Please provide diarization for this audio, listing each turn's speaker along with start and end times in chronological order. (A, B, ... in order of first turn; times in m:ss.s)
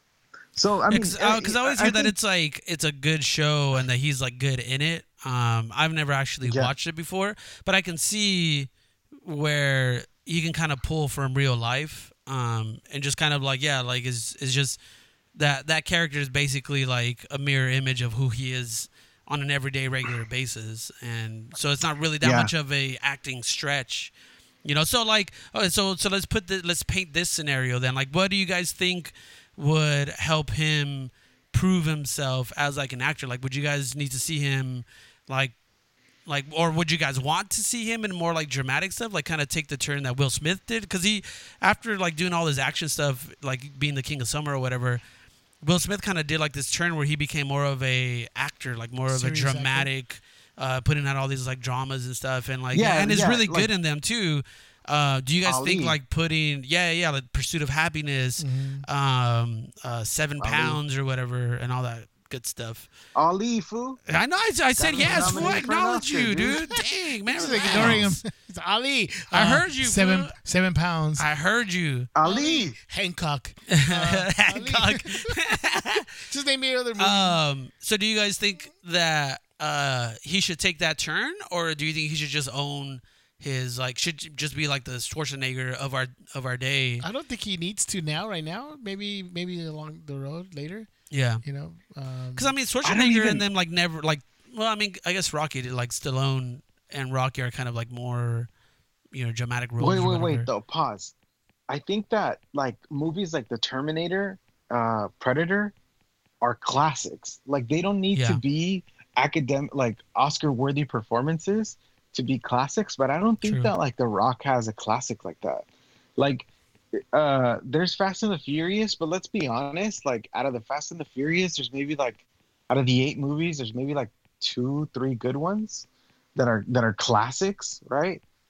0:00.5-0:02.1 A
0:00.9-0:08.7 B
0:06.4-0:06.7 A
0:09.2-0:14.8 B
0:15.3-0:24.1 B
0:22.2-0:22.5 A
0:24.6-0:35.5 B
0:36.2-0:45.0 B
0:45.6-1:02.9 B
0:49.1-0:49.9 C
0:52.7-0:53.7 A
0:55.4-0:56.0 A
0:58.4-0:58.8 C
1:00.4-1:00.8 A
1:03.1-1:04.0 A
1:04.1-1:08.2 B
1:04.8-1:06.6 A
1:04.9-1:05.6 C
1:06.4-1:11.2 C
1:07.7-1:08.1 A
1:09.3-1:10.3 B
1:11.2-1:12.1 B
1:12.1-1:12.8 A
1:12.2-1:15.4 C
1:13.7-1:16.1 B
1:16.2-1:17.4 C
1:17.0-1:27.0 B
1:27.0-1:30.9 C
1:31.1-1:31.4 B
1:31.4-1:32.5 C
1:32.4-1:38.5 B
1:32.8-1:33.4 A
1:39.1-1:40.5 B
1:39.8-1:41.1 A
1:41.7-1:45.7 A
1:46.4-1:55.6 A
1:48.1-1:48.4 B
1:53.4-1:53.7 B
1:56.2-1:56.5 A
1:57.0-2:08.2 A